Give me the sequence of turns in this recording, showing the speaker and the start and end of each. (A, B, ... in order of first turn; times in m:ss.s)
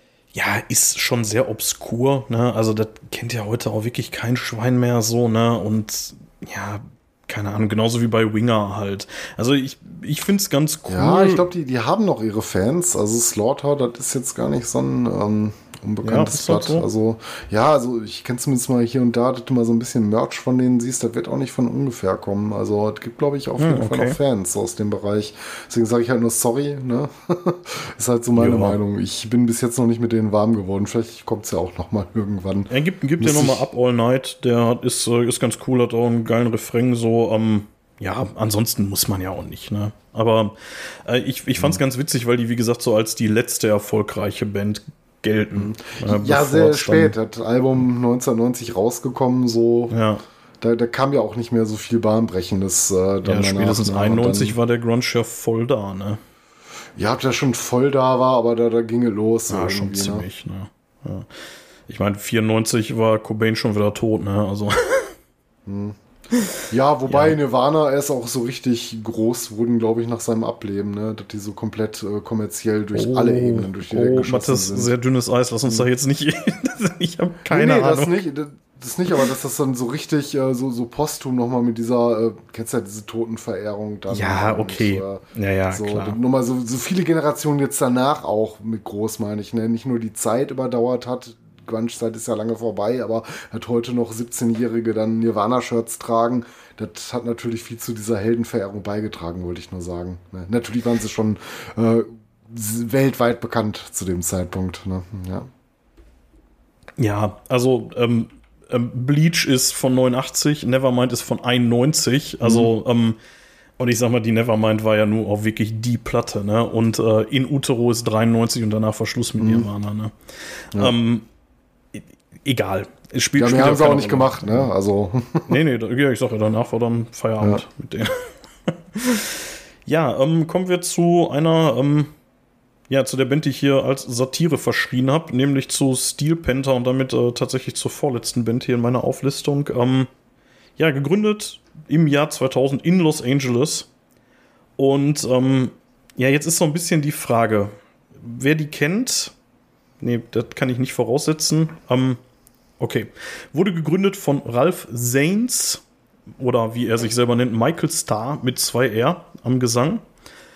0:00.3-0:11.4 A
0:10.9-0:33.6 B
0:16.0-0:16.8 A
0:23.6-0:24.2 A
0:28.4-0:28.8 A
0:32.7-0:47.2 A
0:45.5-0:49.9 B
0:49.9-0:50.2 A
0:50.6-0:54.6 B
0:53.2-0:56.2 A
0:57.0-1:00.2 B
0:59.5-1:01.3 A
1:01.9-1:05.1 A
1:05.7-1:06.0 B
1:06.7-1:14.9 B
1:07.1-1:07.4 A
1:12.9-1:18.2 A
1:17.5-1:45.5 B
1:24.1-1:26.2 A
1:47.0-1:53.2 A
1:52.4-1:52.7 B
1:53.8-2:00.1 A
1:59.4-1:59.7 B
2:00.8-2:01.3 A
2:01.9-2:04.7 A
2:03.4-2:05.5 B
2:05.5-2:12.1 A
2:12.9-2:20.1 A
2:20.8-2:23.9 A
2:24.8-2:29.4 A
2:30.0-2:32.2 A
2:32.8-2:35.8 A
2:36.4-2:40.0 A